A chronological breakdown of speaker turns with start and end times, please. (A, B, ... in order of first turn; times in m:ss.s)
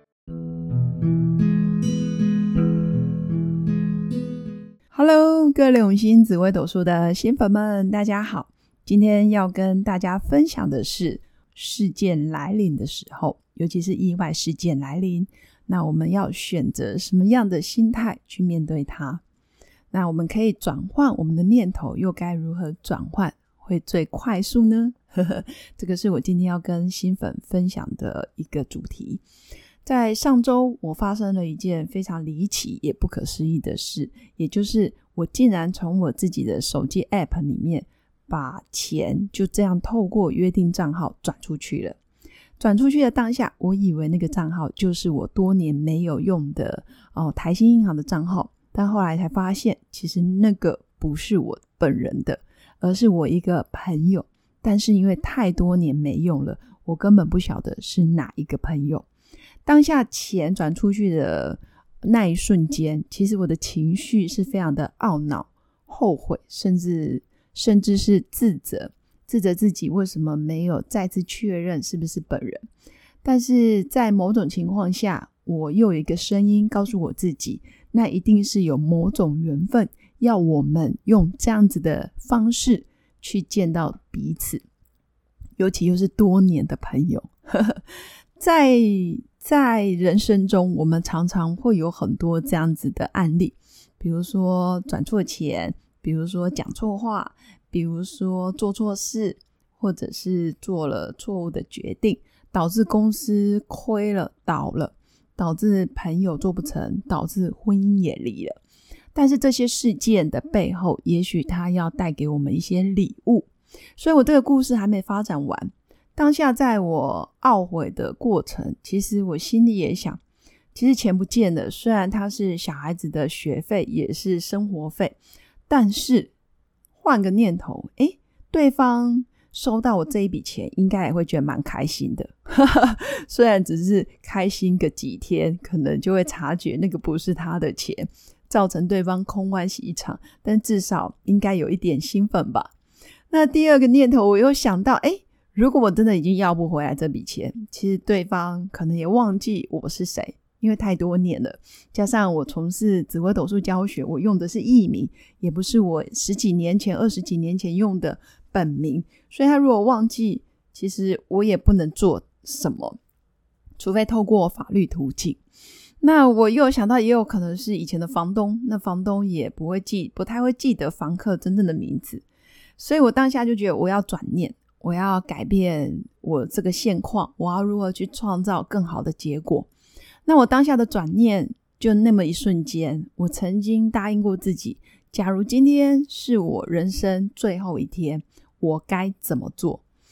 0:04.9-0:19.2 A
0:19.9-0:29.2 A
0:29.8-0:42.0 A
0:42.6-0:59.1 A
0:59.6-1:12.7 A
1:13.2-1:24.6 A
1:25.6-1:27.8 A
1:28.4-1:48.6 A
1:49.1-2:00.2 A
2:00.7-2:05.2 A
2:05.7-2:06.3 A
2:07.0-2:22.7 A
2:23.3-2:43.0 A
2:43.8-2:45.4 A
2:46.0-2:52.2 A
2:52.8-2:59.7 A
3:00.2-3:09.8 A